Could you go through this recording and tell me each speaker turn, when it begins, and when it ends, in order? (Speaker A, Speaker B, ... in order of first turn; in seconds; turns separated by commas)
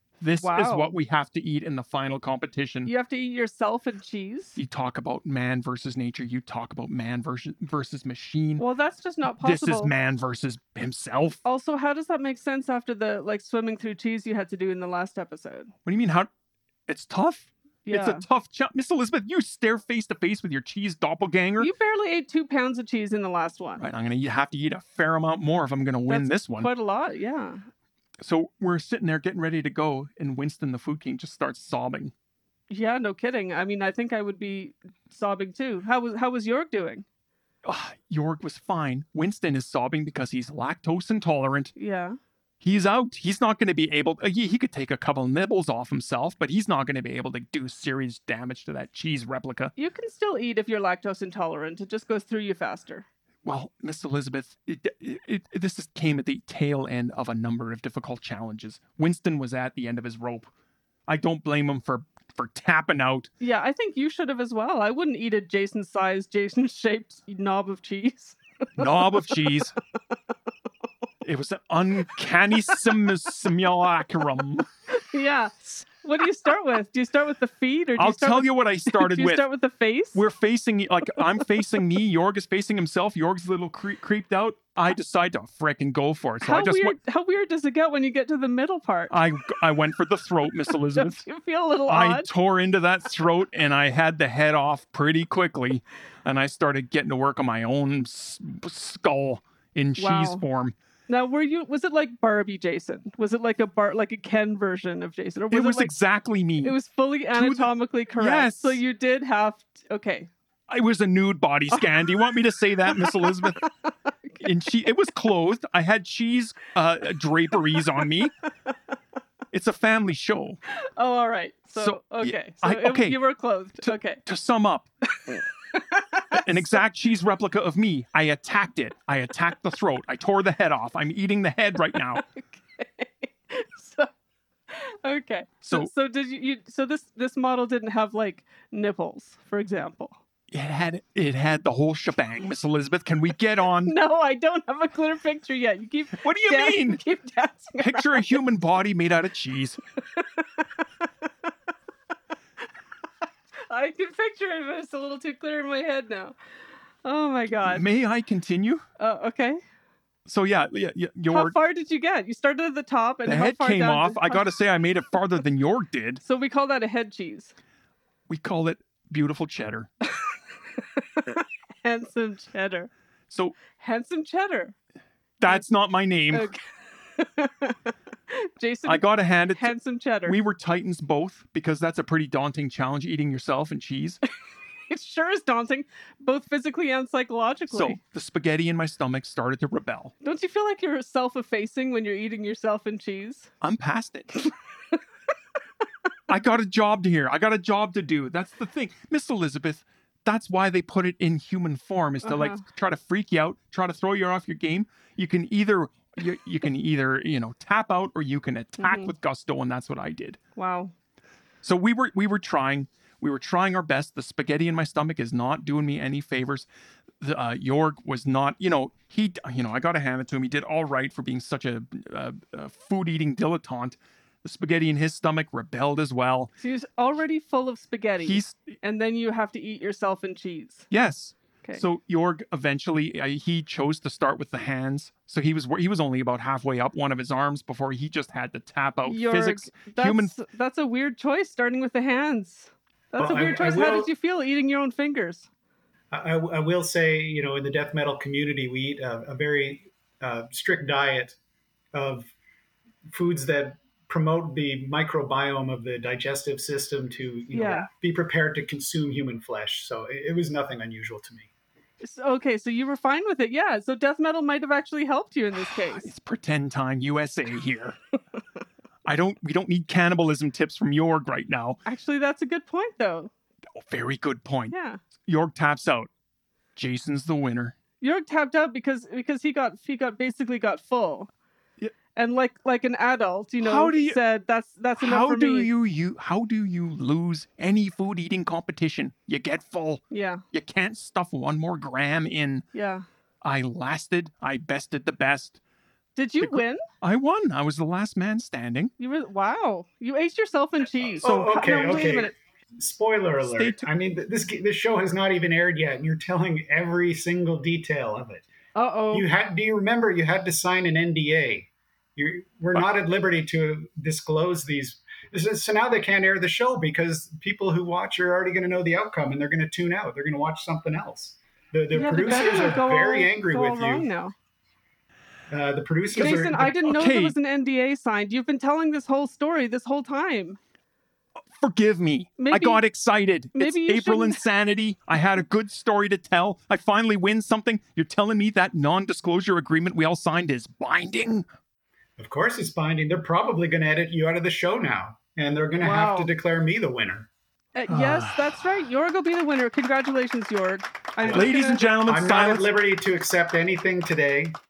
Speaker A: 0.2-2.9, Speaker B: 0.4-0.9, Speaker B: 2.9-4.6, Speaker A: 4.6-8.6, Speaker B: 8.6-9.9, Speaker A: 9.4-11.4, Speaker B: 11.4-15.7, Speaker A: 15.8-16.3, Speaker A: 16.9-21.7, Speaker B: 17.9-18.2, Speaker B: 21.6-23.8, Speaker A: 23.8-26.7, Speaker B: 26.1-27.7, Speaker A: 28.2-32.1, Speaker B: 32.7-37.1, Speaker A: 37.6-41.7, Speaker B: 41.8-42.2, Speaker A: 42.6-49.7, Speaker B: 49.8-53.1, Speaker A: 53.4-60.5, Speaker A: 61.1-63.3, Speaker B: 63.4-69.6, Speaker A: 68.8-69.7, Speaker A: 71.2-74.7, Speaker B: 74.9-80.2, Speaker A: 78.0-79.5, Speaker A: 80.1-87.0, Speaker B: 86.4-89.2, Speaker A: 89.1-91.2, Speaker B: 91.0-92.3, Speaker A: 91.9-100.8, Speaker B: 100.0-100.4, Speaker B: 101.1-105.9, Speaker A: 105.5-106.8, Speaker B: 106.6-110.3, Speaker A: 107.3-108.8, Speaker A: 110.7-113.6, Speaker B: 113.0-113.7, Speaker A: 114.4-118.3, Speaker A: 119.5-120.6, Speaker B: 120.8-124.2, Speaker A: 121.7-123.2, Speaker A: 123.8-124.9, Speaker B: 125.2-126.5, Speaker A: 126.3-132.2, Speaker B: 132.2-134.1, Speaker B: 134.7-140.2, Speaker A: 135.6-135.9, Speaker A: 140.5-143.9, Speaker B: 143.8-148.4, Speaker A: 146.2-147.0, Speaker A: 147.8-149.8, Speaker B: 150.1-151.1, Speaker B: 153.7-156.3, Speaker B: 157.0-157.8, Speaker A: 157.6-158.8, Speaker B: 159.0-159.6, Speaker A: 160.3-161.6, Speaker B: 161.3-164.4, Speaker A: 163.2-166.2, Speaker B: 166.2-167.6, Speaker A: 168.3-169.9, Speaker B: 170.8-172.9, Speaker A: 173.3-173.6, Speaker B: 173.7-174.8, Speaker A: 175.4-176.5, Speaker B: 176.3-180.4, Speaker A: 178.8-184.2, Speaker B: 184.9-188.0, Speaker A: 187.7-190.1, Speaker B: 190.2-193.5, Speaker A: 193.6-194.3, Speaker A: 196.3-210.4, Speaker B: 202.2-202.6, Speaker B: 208.8-209.1, Speaker B: 210.6-210.9, Speaker A: 211.6-216.7, Speaker A: 217.2-226.5, Speaker B: 226.6-230.9, Speaker A: 228.2-228.7, Speaker A: 230.9-240.3, Speaker B: 239.1-245.5, Speaker C: 243.2-244.1, Speaker C: 246.1-251.4, Speaker C: 251.9-252.3, Speaker C: 253.1-261.5, Speaker B: 257.5-257.9, Speaker B: 262.0-266.1, Speaker A: 265.9-268.0, Speaker A: 269.1-271.8, Speaker B: 271.9-273.3, Speaker A: 273.8-274.7, Speaker B: 274.7-275.0, Speaker A: 275.2-276.1, Speaker A: 276.8-277.8, Speaker B: 278.0-281.3, Speaker B: 282.2-285.7, Speaker A: 283.6-284.2, Speaker A: 285.0-292.7, Speaker B: 290.1-290.4, Speaker B: 292.7-293.0, Speaker A: 293.4-295.6, Speaker B: 296.2-296.8, Speaker A: 296.4-298.9, Speaker B: 299.0-302.4, Speaker A: 301.2-301.6, Speaker C: 301.2-308.5, Speaker A: 303.4-303.9, Speaker B: 308.7-309.3, Speaker C: 309.1-324.1, Speaker B: 321.9-324.3, Speaker C: 325.5-326.8, Speaker A: 326.1-327.4, Speaker B: 326.1-330.6, Speaker A: 331.6-341.4, Speaker B: 332.4-332.8, Speaker B: 333.6-334.4, Speaker C: 342.2-347.3, Speaker B: 345.8-346.3, Speaker B: 347.7-351.9, Speaker A: 347.9-348.4, Speaker C: 351.2-354.6, Speaker A: 351.3-352.7